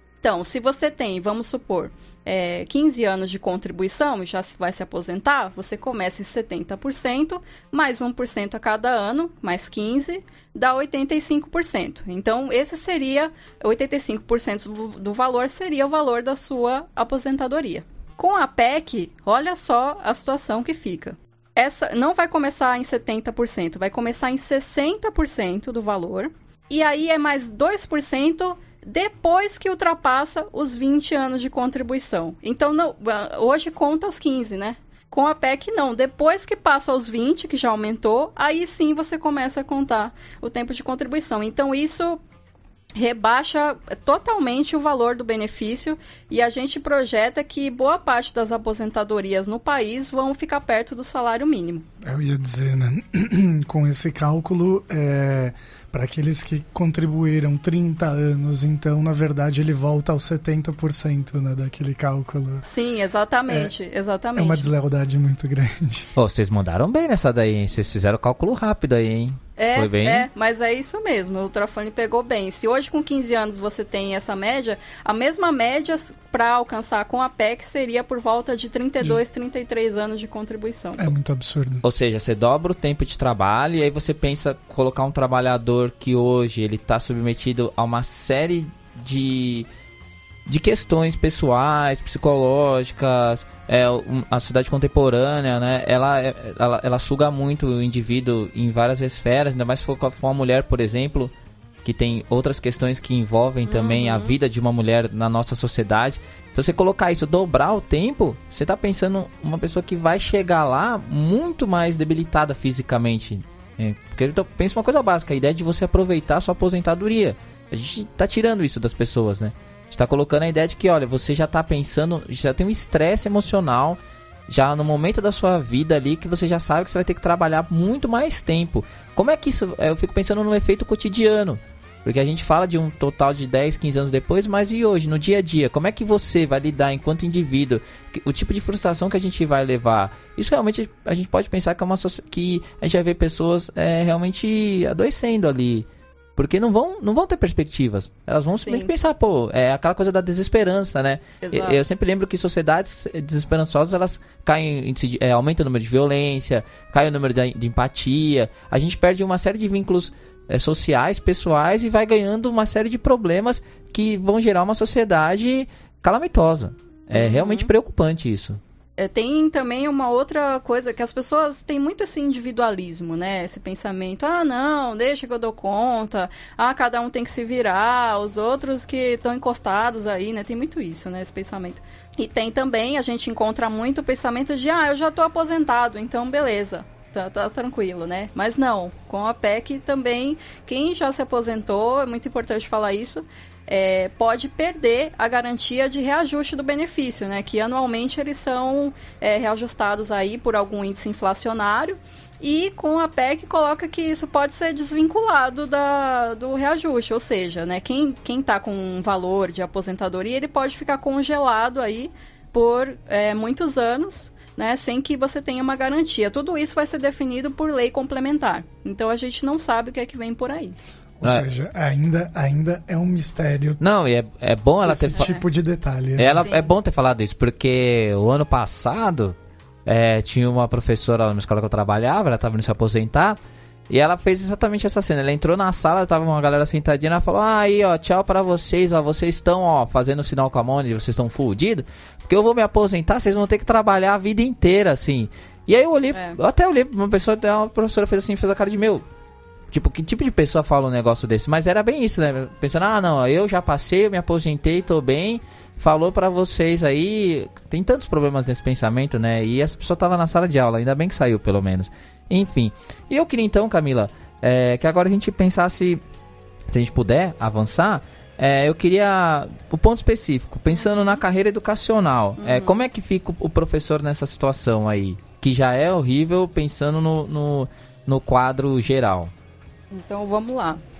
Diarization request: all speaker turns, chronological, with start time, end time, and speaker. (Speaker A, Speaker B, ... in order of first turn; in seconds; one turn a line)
Speaker A: 0.2-42.2
Speaker A: 43.0-51.9
Speaker B: 52.0-62.6
Speaker A: 62.6-64.7
Speaker B: 64.4-66.1
Speaker C: 66.2-70.3
Speaker A: 69.6-81.1
Speaker B: 81.0-81.8
Speaker C: 81.8-89.7
Speaker C: 90.5-101.3
Speaker C: 101.8-168.6
Speaker A: 103.7-104.4
Speaker A: 148.5-148.9
Speaker A: 151.4-151.8
Speaker A: 167.1-167.7
Speaker A: 169.0-220.8
Speaker B: 221.2-223.8
Speaker C: 223.8-225.3
Speaker B: 224.8-226.5
Speaker A: 225.2-225.4
Speaker C: 226.2-233.4
Speaker A: 226.4-226.7
Speaker C: 233.9-249.0
Speaker A: 246.1-246.4
Speaker C: 249.7-266.0
Speaker C: 266.7-279.3
Speaker A: 272.4-272.8
Speaker A: 279.9-280.8